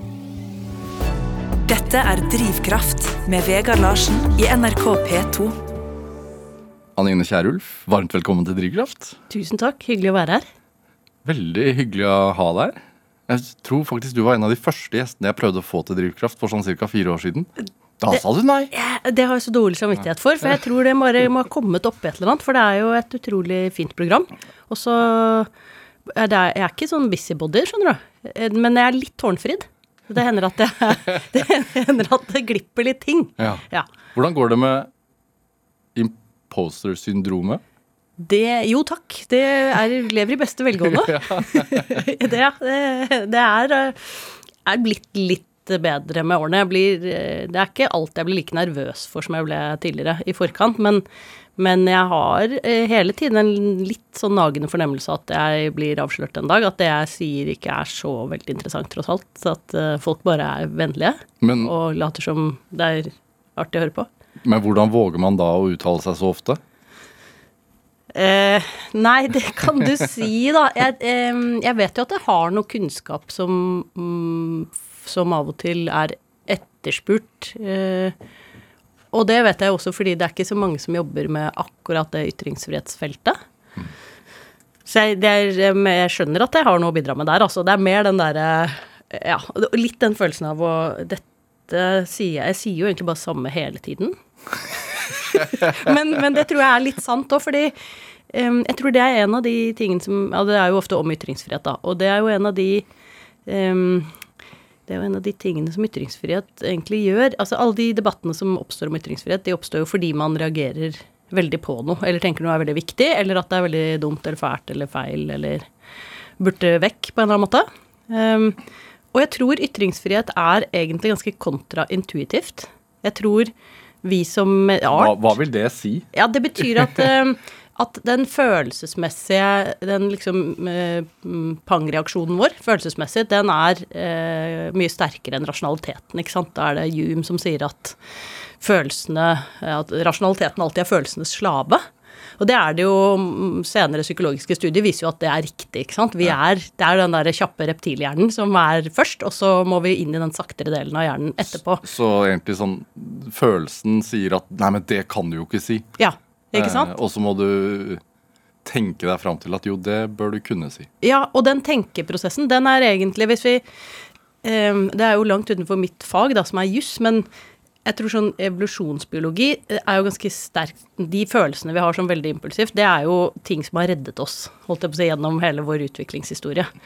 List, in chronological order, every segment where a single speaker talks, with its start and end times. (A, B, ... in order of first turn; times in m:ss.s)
0:01.6-0:05.6 A
0:07.0-0:09.2 B
0:09.3-0:10.4 C
0:11.2-0:18.7 B
0:18.7-0:25.5 C
0:26.1-0:33.9 C
0:34.2-0:34.9 B
0:36.0-0:37.6 B
0:38.2-0:51.0 C
0:41.0-0:42.0 B
0:51.6-1:04.1 C
1:01.4-1:01.7 B
1:04.4-1:06.6 B
1:08.2-1:18.2 C
1:19.1-1:23.4 C
1:24.9-1:34.2 C
1:34.7-1:37.7 C
1:38.3-1:42.8 C
1:43.5-1:44.1 C
1:44.9-1:55.6 C
1:56.4-1:58.6 C
1:59.1-2:03.5 C
2:04.0-2:05.3 C
2:04.9-2:06.1 B
2:06.1-2:18.0 C
2:18.6-2:21.8 C
2:22.4-2:31.8 C
2:31.8-2:35.9 B
2:36.0-2:36.9 C
2:36.5-2:38.0 B
2:38.6-2:40.9 B
2:41.0-2:43.6 C
2:44.4-2:47.3 C
2:47.8-2:56.7 C